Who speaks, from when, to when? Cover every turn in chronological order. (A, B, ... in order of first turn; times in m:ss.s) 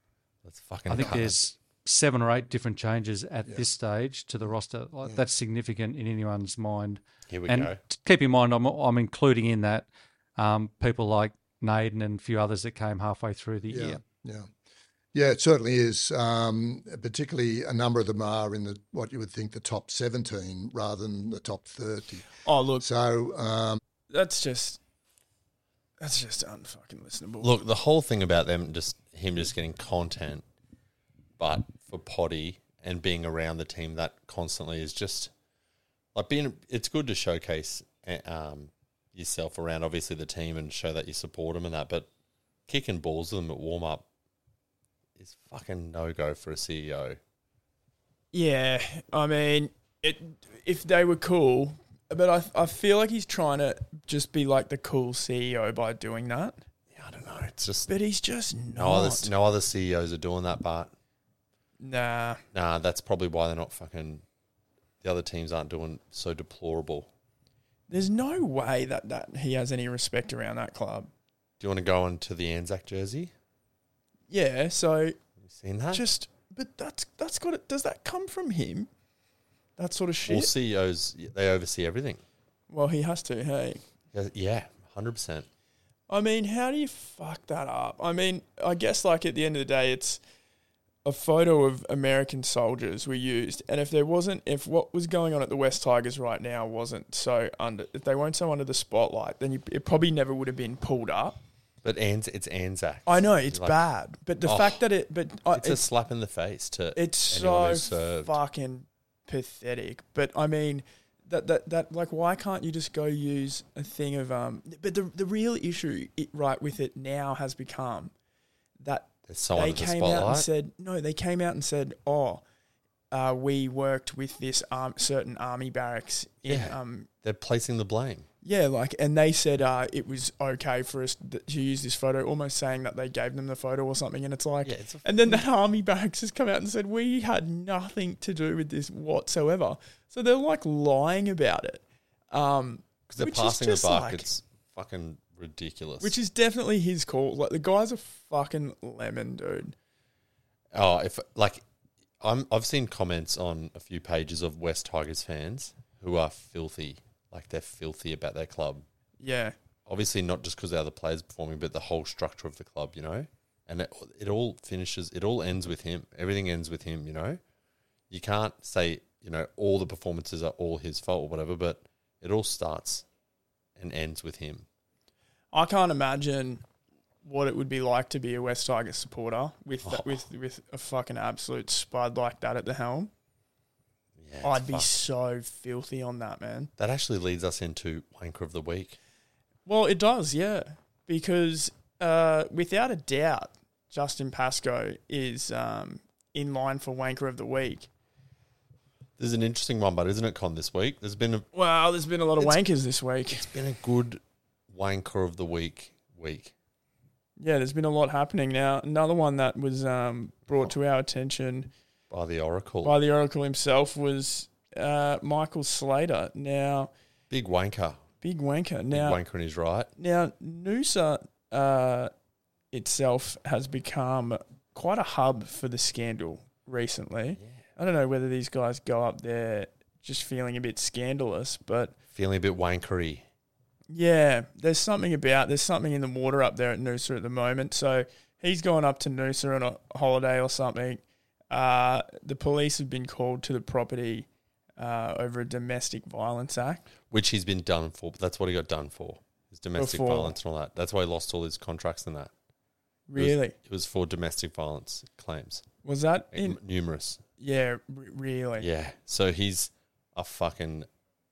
0:00.4-0:01.4 A
0:00.9-0:14.0 B
0:07.3-0:07.8 A
0:13.7-0:14.5 C
0:15.1-0:23.8 C
0:22.4-0:22.8 D
0:24.1-0:24.8 D
0:26.0-0:27.5 D
0:27.4-0:30.4 A
0:31.4-0:35.3 A
0:36.1-0:42.1 A
0:42.7-0:44.0 A
0:45.2-0:47.2 A
0:48.3-0:56.6 D
0:56.9-0:57.9 A
0:57.9-0:59.3 D
0:58.7-1:00.9 A
1:01.8-1:02.4 D
1:02.5-1:04.2 A
1:05.0-1:07.1 A
1:07.9-1:11.1 D
1:11.6-1:13.3 A
1:14.3-1:15.2 D
1:15.4-1:16.0 A
1:15.9-1:18.9 D
1:19.8-1:20.5 D
1:20.2-1:22.2 A
1:22.7-1:23.8 D
1:24.1-1:25.5 A
1:26.1-1:30.2 D
1:31.0-1:41.4 D
1:41.8-1:43.8 A
1:43.0-1:45.8 D
1:44.4-1:44.8 A
1:45.5-1:48.4 A
1:46.9-1:58.1 D
1:58.8-2:02.4 D
1:59.3-2:00.5 A
2:03.1-2:07.1 D
2:06.4-2:08.3 A
2:08.4-2:24.3 D
2:14.6-2:15.4 A
2:23.1-2:26.2 A
2:26.0-2:29.7 D
2:30.7-2:31.6 A
2:32.2-2:38.8 A
2:39.2-2:39.5 D
2:39.8-2:47.4 A
2:48.1-2:53.0 A
2:53.8-2:54.6 A
2:55.5-2:56.6 D
2:57.2-3:03.1 D
2:59.8-3:00.2 A
3:04.2-3:04.9 A
3:04.4-3:06.7 D
3:06.8-3:09.0 A
3:09.6-3:17.9 D
3:19.2-3:21.5 A
3:21.5-3:23.5 D
3:23.3-3:26.5 A
3:27.4-3:31.7 D
3:32.1-3:33.0 A
3:32.8-3:36.9 D
3:37.3-3:38.0 A
3:38.2-3:39.2 D
3:38.9-3:39.9 A
3:40.0-3:42.1 D
3:42.7-3:51.9 D
3:52.1-3:53.2 A
3:53.9-4:04.3 D
4:04.8-4:06.8 D
4:07.1-4:12.3 A
4:09.8-4:10.3 D
4:13.1-4:13.6 D
4:13.2-4:15.6 A
4:15.8-4:16.6 D
4:16.3-4:17.2 A
4:17.4-4:18.7 D
4:18.6-4:20.9 A